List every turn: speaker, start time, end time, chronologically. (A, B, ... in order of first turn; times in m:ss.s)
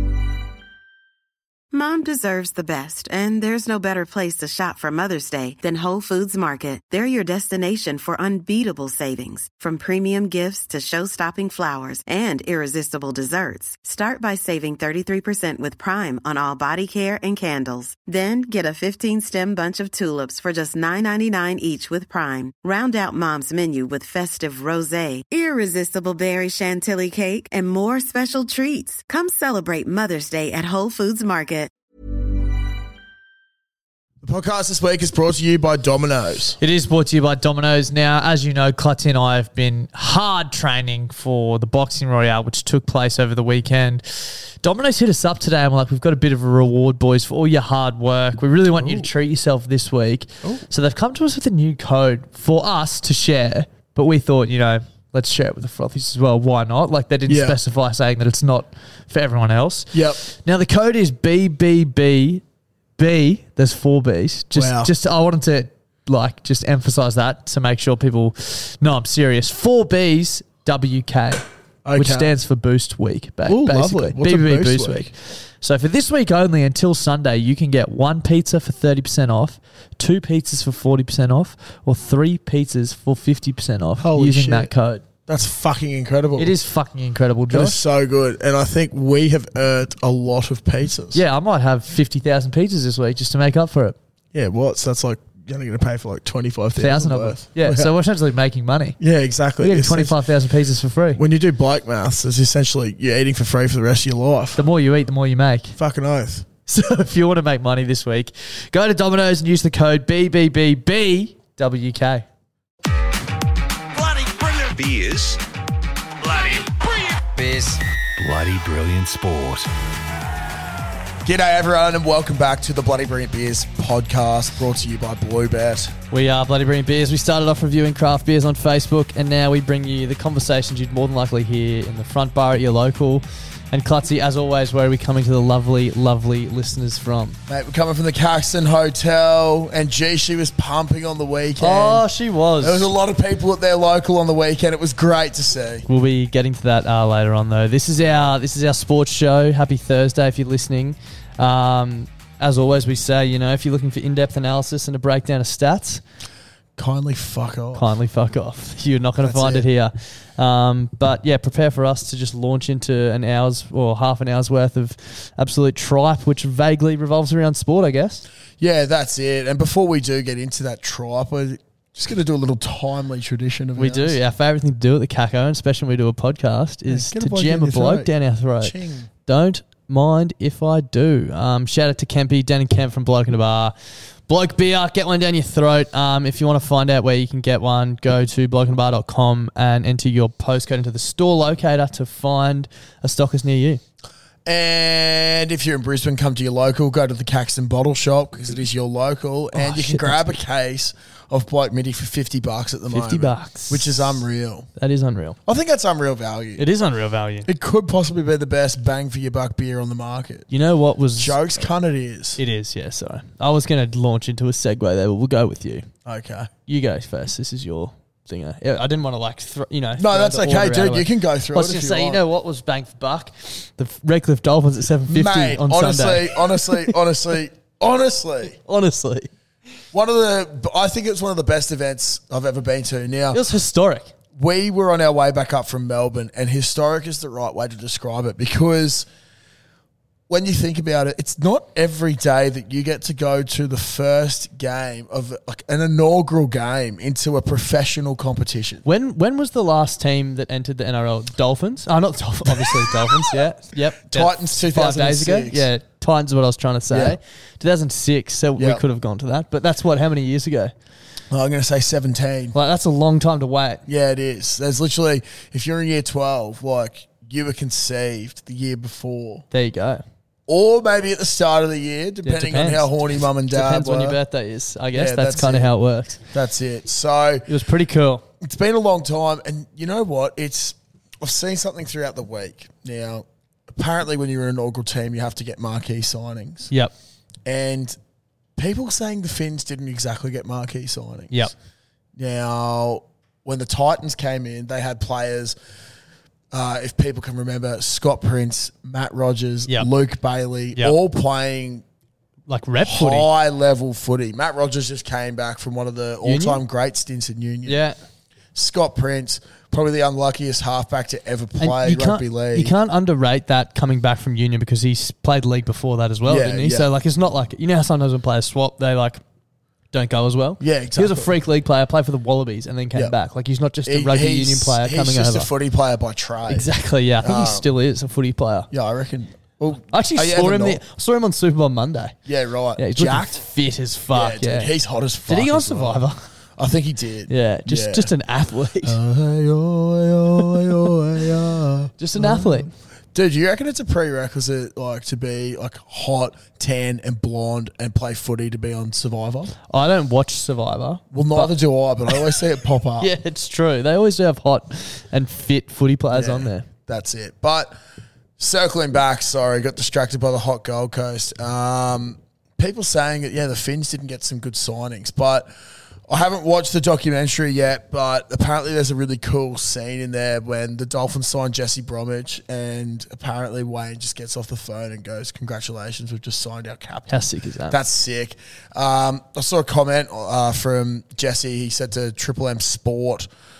0:01.7-0:31.7 A
0:34.2-0:36.6 B
0:36.6-1:02.4 C
0:48.8-0:49.1 B
0:57.3-0:57.6 B
0:59.9-1:00.2 B
1:03.0-1:11.4 C
1:04.5-1:04.9 B
1:11.8-1:12.3 B
1:12.0-1:25.0 C
1:13.4-1:15.1 B
1:24.0-1:24.7 B
1:25.2-1:26.5 B
1:26.4-1:27.8 C
1:27.5-1:31.2 B
1:31.1-1:34.0 C
1:34.3-1:37.9 B
1:36.8-1:39.0 C
1:39.0-1:40.1 B
1:39.6-1:41.2 C
1:41.2-1:44.6 B
1:44.6-1:45.7 C
1:45.7-1:46.4 B
1:46.7-1:52.2 C
1:53.9-1:55.4 D
1:56.2-1:59.7 D
2:01.2-2:05.9 B
2:06.1-2:17.4 C
2:17.5-2:22.0 B
2:21.6-2:22.9 C
2:22.6-2:25.8 B
2:25.9-2:36.0 C
2:36.8-2:37.9 B
2:37.7-2:48.2 C
2:39.2-2:39.6 B
2:48.6-2:54.2 B
2:53.8-2:58.7 C
2:56.9-2:59.1 B
2:59.2-3:03.7 C
3:04.3-3:13.8 C
3:14.4-3:24.7 B
3:19.5-3:20.3 C
3:22.9-3:25.4 C
3:25.4-3:26.6 B
3:26.6-3:27.5 C
3:27.4-3:30.5 B
3:30.5-3:31.7 C
3:31.2-3:32.4 B
3:32.4-3:35.9 C
3:36.0-3:36.5 B
3:36.7-3:47.0 C
3:40.0-3:42.2 B
3:45.1-3:48.6 B
3:48.6-3:49.3 C
3:49.9-3:53.4 B
3:53.3-3:54.1 C
3:54.4-3:59.1 B
4:00.3-4:08.8 B
4:08.8-4:20.7 C
4:12.5-4:13.4 B
4:14.1-4:15.6 B
4:16.9-4:17.2 B
4:18.6-4:18.8 B
4:21.3-4:22.6 B
4:22.5-4:23.8 C
4:23.8-4:29.4 B
4:29.5-4:30.0 C
4:30.5-4:34.2 B
4:32.2-4:36.2 C
4:34.9-4:35.7 B
4:36.3-4:37.5 B
4:37.5-4:38.2 C
4:38.4-4:46.7 B
4:47.4-4:48.0 B
4:48.6-4:51.5 B
4:52.2-4:55.6 B
4:56.5-5:01.8 B
5:02.5-5:03.3 C
5:02.8-5:07.8 B
5:06.2-5:06.6 C
5:07.6-5:08.0 C
5:08.5-5:12.7 B
5:11.6-5:19.2 C
5:16.3-5:16.9 B
5:19.9-5:25.5 C
5:20.6-5:21.3 B
5:23.8-5:26.6 B
5:26.5-5:28.7 C
5:27.2-5:27.7 B
5:28.7-5:30.8 B
5:29.9-5:32.2 C
5:32.3-5:33.4 B
5:32.8-5:34.7 C
5:34.1-5:36.0 B
5:35.3-5:36.2 C
5:36.6-5:38.1 B
5:37.3-5:39.0 C
5:38.8-5:49.5 B
5:42.0-5:42.7 C
5:49.7-5:51.5 C
5:51.1-5:53.1 B
5:52.1-5:52.4 C
5:53.0-5:56.7 C
5:56.1-5:57.8 B
5:58.4-6:05.5 B
6:06.1-6:23.3 B
6:17.1-6:17.8 C